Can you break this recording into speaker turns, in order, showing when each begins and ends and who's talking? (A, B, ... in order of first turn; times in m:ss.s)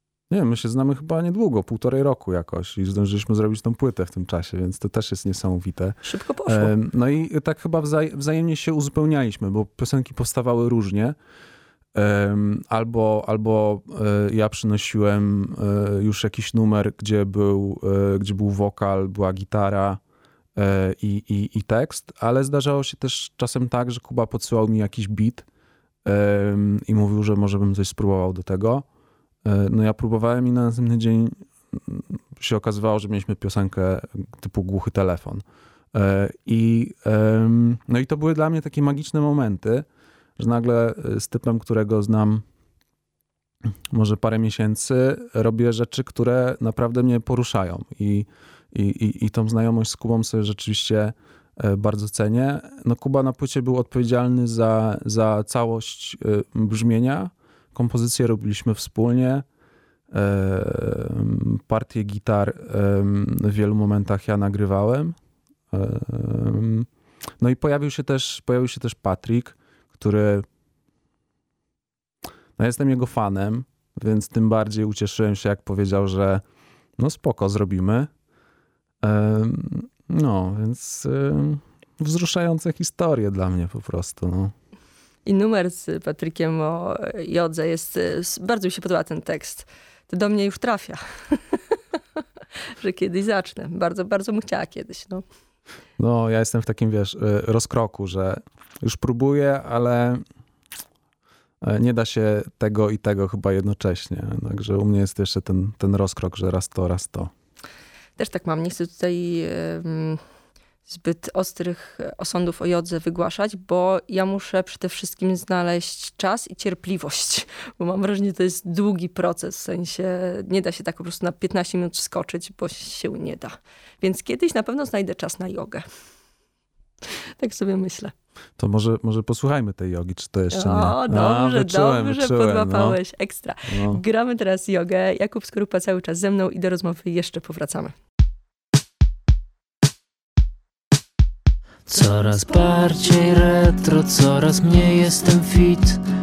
0:00.3-0:11.2 A
0:06.0-0:06.7 B
0:12.0-0:20.0 A
0:20.6-0:25.5 A
0:26.0-0:28.8 A
0:29.4-0:39.9 A
0:40.4-0:42.4 A
0:43.9-0:59.4 A
1:00.1-1:05.2 A
1:05.7-1:06.9 A
1:07.4-1:10.5 A
1:12.6-1:16.4 A
1:17.0-1:18.1 A
1:19.0-1:24.5 A
1:25.3-1:31.6 B
1:32.8-1:35.2 B
1:36.0-1:40.2 A
1:41.6-1:47.3 A
1:48.2-1:50.2 B
1:50.9-2:05.9 B
2:07.1-2:08.1 B
2:08.6-2:13.0 A
2:10.5-2:18.0 B
2:13.7-2:14.0 A
2:21.9-2:26.0 C